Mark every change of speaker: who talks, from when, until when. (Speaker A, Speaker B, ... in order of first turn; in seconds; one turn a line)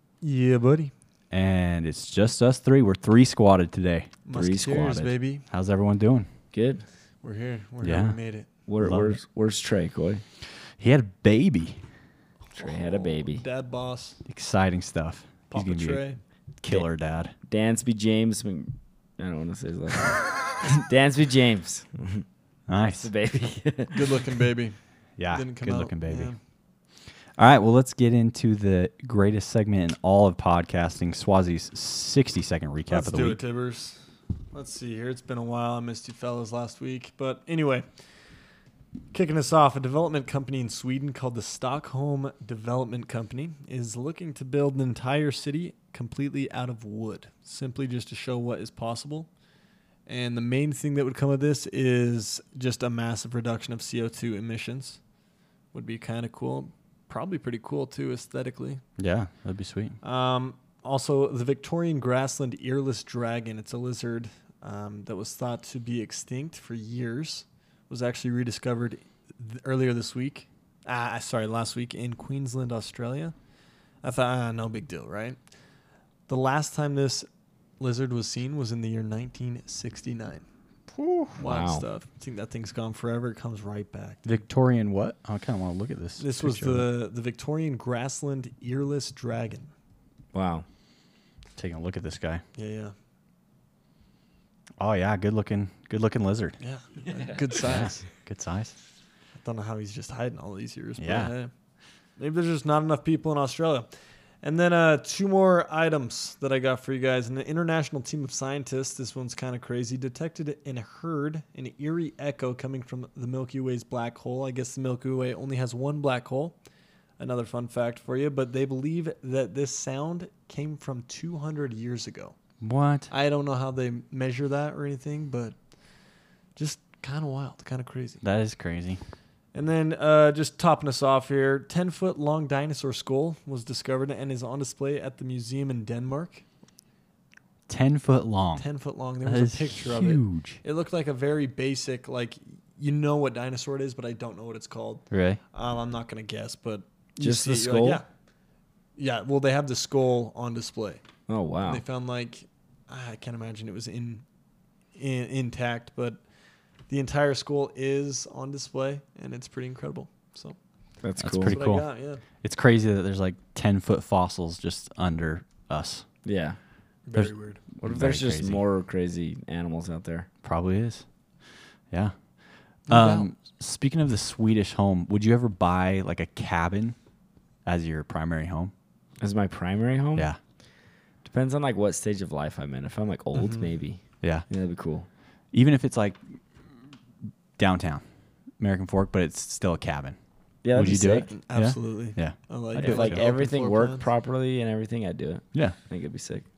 Speaker A: 0.2-0.9
Speaker B: 1.3-4.1
Speaker A: 4.2-5.5
Speaker C: 4.3-5.1
Speaker B: 5.5-6.3
Speaker C: 6.5-6.8
Speaker A: 7.2-8.5
Speaker B: 7.8-8.2
Speaker C: 8.7-10.2
Speaker B: 8.8-9.2
Speaker B: 10.8-11.9
Speaker A: 12.5-14.2
Speaker C: 12.6-13.4
Speaker B: 14.2-17.3
Speaker A: 15.5-16.2
Speaker C: 17.4-22.2
Speaker B: 22.7-23.1
Speaker C: 22.9-24.0
Speaker A: 23.9-26.4
Speaker B: 25.2-26.3
Speaker B: 27.4-33.4
Speaker A: 32.9-34.0
Speaker A: 34.5-37.9
Speaker A: 39.1-49.3
Speaker A: 50.1-55.0
Speaker A: 55.7-58.8
Speaker B: 59.0-60.0
Speaker A: 60.0-73.3
Speaker A: 74.0-75.4
Speaker A: 76.3-77.3
Speaker A: 77.8-80.5
Speaker B: 81.0-81.4
Speaker A: 81.4-84.2
Speaker C: 81.4-81.8
Speaker B: 84.2-86.9
Speaker A: 86.2-89.7
Speaker C: 90.3-90.7
Speaker B: 91.6-92.4
Speaker A: 92.5-92.9
Speaker B: 94.8-96.6
Speaker A: 96.6-98.1
Speaker C: 97.0-97.6
Speaker B: 97.6-98.8
Speaker A: 99.4-101.5
Speaker B: 101.0-101.3
Speaker A: 102.2-116.6
Speaker A: 117.2-122.4
Speaker B: 122.6-123.1
Speaker A: 123.1-125.7
Speaker A: 126.5-128.2
Speaker B: 128.2-129.0
Speaker A: 129.5-136.4
Speaker B: 137.7-140.6
Speaker A: 138.6-148.1
Speaker B: 145.1-145.4
Speaker C: 147.2-148.0
Speaker A: 149.0-151.0
Speaker C: 151.3-151.8
Speaker A: 151.6-154.2
Speaker A: 154.9-156.2
Speaker A: 156.9-160.6
Speaker C: 161.0-161.7
Speaker B: 161.2-166.1
Speaker A: 161.5-162.2
Speaker C: 166.2-166.6
Speaker A: 167.1-167.6
Speaker B: 167.2-168.6
Speaker C: 167.8-170.3
Speaker B: 170.4-171.1
Speaker B: 171.9-177.0
Speaker A: 172.9-173.3
Speaker B: 177.7-178.7
Speaker C: 179.2-180.3
Speaker C: 181.2-185.1
Speaker A: 183.3-183.7
Speaker B: 184.2-184.5
Speaker B: 185.5-186.4
Speaker B: 187.6-193.2
Speaker C: 190.6-191.3
Speaker A: 190.8-194.1
Speaker C: 192.8-196.4